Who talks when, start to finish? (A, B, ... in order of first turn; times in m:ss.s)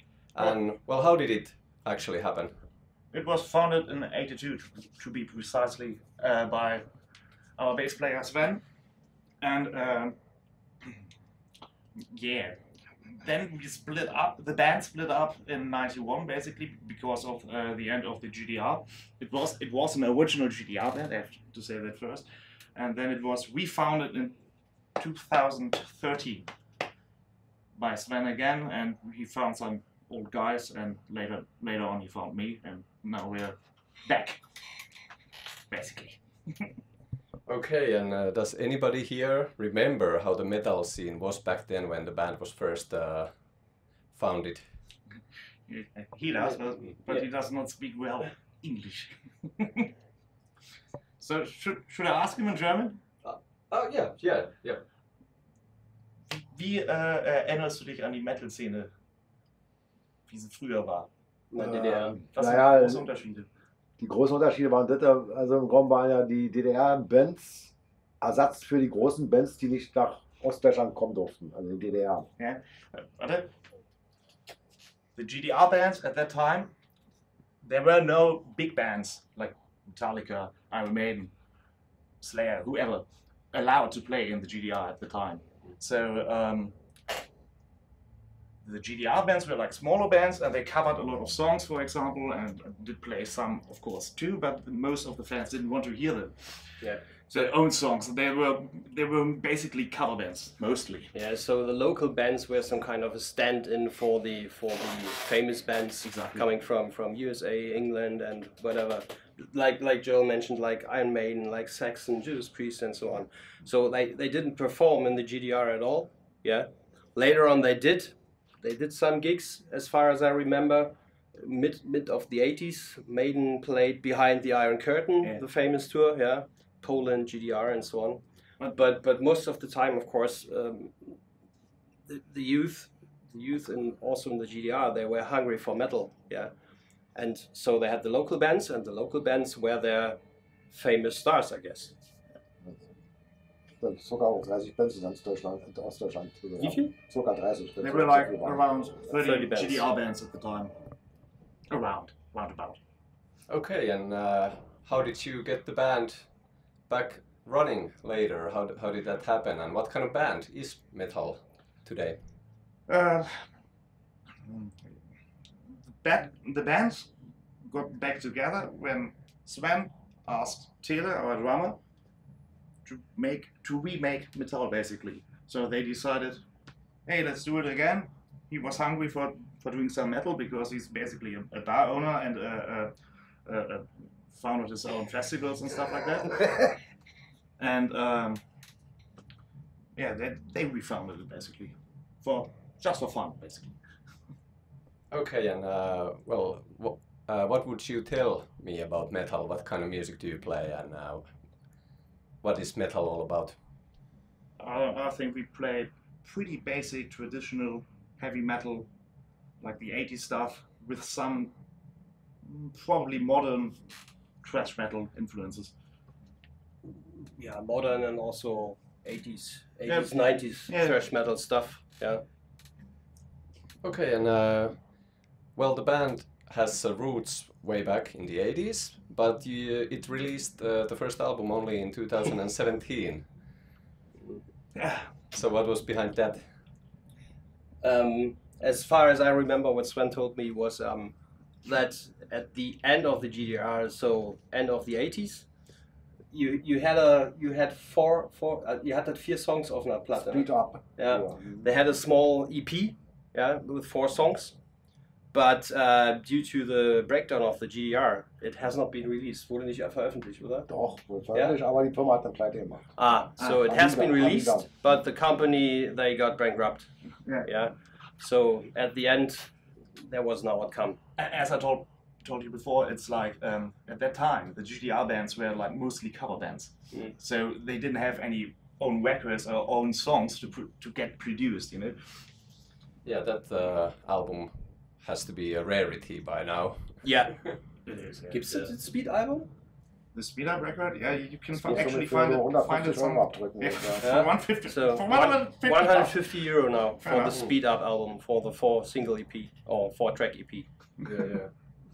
0:00.3-0:02.6 A
0:03.1-0:06.8 B
0:07.6-0:08.6 B
0:09.4-0:10.1 B
0:12.0-0:12.6 B
0:13.2-0:24.3 B
0:25.0-0:26.5 B
0:27.8-0:34.9 B
0:35.7-0:36.7 B
0:37.4-0:44.8 A
0:45.7-0:49.9 B
0:51.2-0:53.0 B
0:53.2-0:54.8 A
0:56.3-0:58.9 B
1:00.3-1:01.1 B
1:01.5-1:02.2 C
1:01.6-1:03.0 D
1:02.3-1:03.5 B
1:04.0-1:12.3 D
1:12.4-1:13.5 B
1:15.2-1:16.7 B
1:17.6-1:21.3 B
1:22.2-1:26.7 B
1:28.6-1:41.1 B
1:36.8-1:37.5 C
1:41.1-2:11.2 C
1:46.0-1:46.4 B
2:12.1-2:16.5 C
2:17.1-2:20.2 C
2:20.7-2:21.9 C
2:23.8-2:28.7 D
2:26.6-2:26.9 C
2:27.8-2:30.7 B
2:29.1-2:29.9 C
2:31.7-2:32.8 B
2:33.5-2:42.2 A
2:42.9-2:43.5 B
2:44.4-2:45.0 B
2:45.7-2:47.1 B
2:47.6-2:51.8 B
2:52.8-2:56.4 B
2:57.0-3:02.9 B
3:03.4-3:06.7 B
3:07.6-3:08.4 B
3:10.0-3:13.8 B
3:15.1-3:21.3 A
3:22.4-3:23.6 A
3:24.6-3:28.9 B
3:29.6-3:31.5 B
3:32.4-3:33.8 B
3:34.4-3:35.7 B
3:36.8-3:42.2 C
3:39.9-3:41.0 B
3:43.8-3:53.3 A
3:54.7-3:55.2 B
3:55.3-3:56.4 A
3:57.8-4:05.5 C
4:06.3-4:14.6 C
4:10.1-4:11.6 D
4:15.3-4:20.7 C
4:20.7-4:24.7 D
4:21.3-4:21.6 C
4:22.9-4:31.0 C
4:31.2-4:42.2 B
4:36.9-4:37.2 C
4:43.0-4:47.2 A
4:47.0-4:47.6 C
4:47.8-4:48.7 B
4:48.3-4:49.5 C
4:50.1-4:57.4 B
4:51.5-4:54.1 D
4:54.0-5:00.7 C